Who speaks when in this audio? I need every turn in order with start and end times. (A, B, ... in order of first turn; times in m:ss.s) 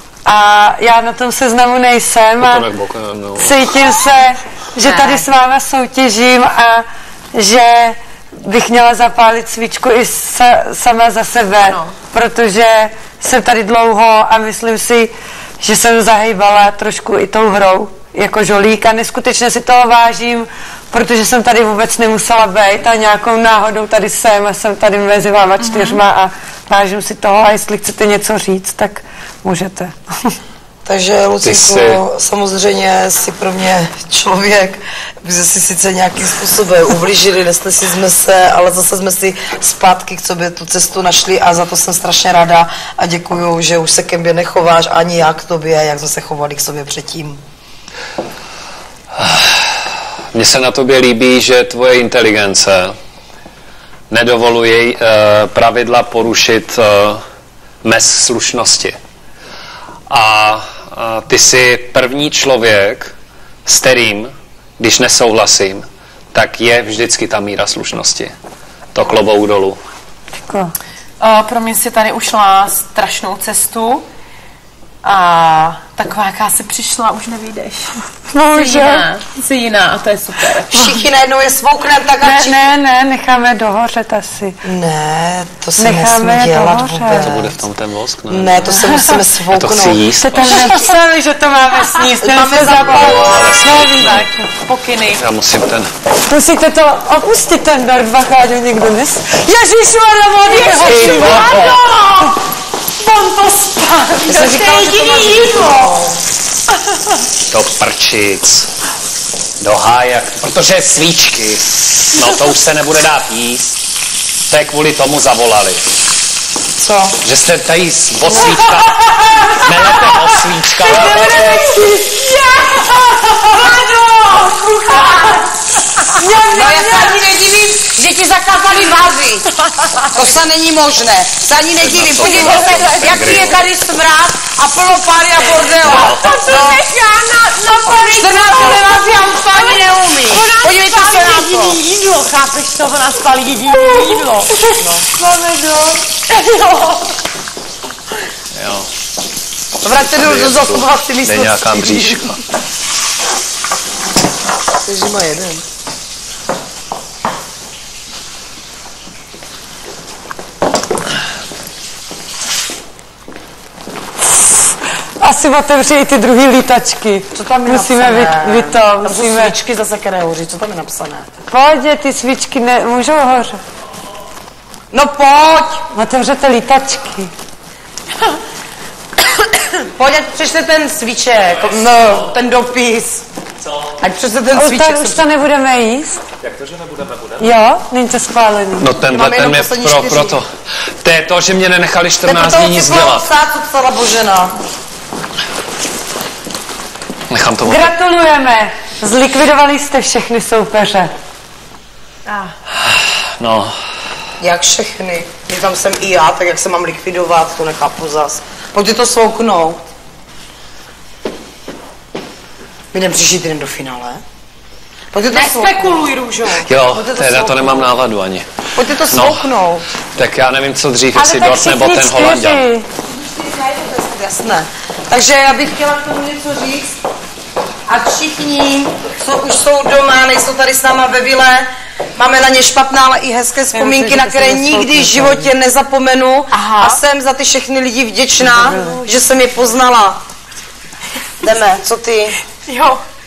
0:00.2-0:02.7 A
0:02.4-0:03.6 B
0:03.4-0:30.4 A
0:04.8-0:05.3 C
0:11.6-0:11.9 C
0:25.6-0:26.0 C
0:30.8-0:47.4 D
0:31.4-0:32.0 B
0:49.2-0:52.9 B
0:54.1-0:57.2 B
0:57.8-0:59.0 B
1:00.1-1:03.1 B
1:03.7-1:08.3 B
1:08.9-1:09.8 B
1:10.4-1:10.7 A
1:11.2-1:14.1 C
1:15.0-1:18.0 C
1:18.3-1:19.1 A
1:18.5-1:21.1 C
1:20.7-1:22.6 D
1:22.2-1:24.6 A
1:24.6-1:27.6 D
1:25.8-1:27.4 A
1:27.2-1:30.7 B
1:28.3-1:30.0 D
1:30.2-1:34.5 A
1:30.5-1:30.9 C
1:31.7-1:32.1 C
1:32.2-1:33.4 D
1:32.8-1:34.3 B
1:34.6-1:35.2 C
1:35.2-1:35.9 B
1:36.3-1:41.7 A
1:40.4-1:42.4 C
1:40.7-1:41.8 B
1:43.0-1:46.0 C
1:44.2-1:46.2 D
1:46.9-1:47.2 C
1:47.5-1:48.7 B
1:49.6-1:53.8 B
1:54.5-1:55.8 B
1:56.8-1:57.2 D
1:57.2-2:01.6 B
1:58.3-1:58.6 A
1:59.1-1:59.4 C
2:00.8-2:06.8 C
2:00.8-2:02.1 A
2:06.2-2:07.2 A
2:06.5-2:09.5 D
2:09.7-2:10.1 C
2:10.1-2:16.8 D
2:11.8-2:13.6 B
2:12.2-2:13.6 C
2:15.6-2:24.7 C
2:15.8-2:16.7 B
2:18.1-2:21.8 D
2:24.7-2:26.0 A
2:24.8-2:25.1 D
2:26.3-2:27.2 C
2:28.5-2:28.9 B
2:29.8-2:32.3 D
2:30.0-2:32.4 B
2:34.8-2:35.6 D
2:45.2-2:49.6 A
2:47.3-2:51.3 D
2:51.5-2:53.6 A
2:54.9-2:55.8 D
2:55.9-2:57.3 A
2:59.3-2:59.9 C
3:00.0-3:03.3 D
3:04.0-3:05.3 D
3:04.5-3:06.2 A
3:06.4-3:07.4 B
3:07.4-3:08.9 A
3:08.8-3:10.5 B
3:09.1-3:10.4 D
3:11.0-3:13.3 B
3:12.2-3:14.6 D
3:17.3-3:17.9 B
3:17.6-3:21.1 A
3:22.3-3:22.5 C
3:22.8-3:23.7 B
3:24.4-3:29.8 D
3:32.9-3:34.2 D
3:35.1-3:36.1 D
3:35.3-3:36.7 C
3:36.5-3:38.5 B
3:36.8-3:37.9 D
3:38.8-3:39.9 D
3:39.1-3:39.4 B
3:40.2-3:42.6 B
3:41.2-3:42.9 A
3:43.1-3:47.0 D
3:47.9-4:00.2 D
3:53.7-3:55.5 A
3:56.5-3:57.0 C
3:58.4-3:59.0 A
4:01.4-4:02.4 D
4:02.6-4:03.0 C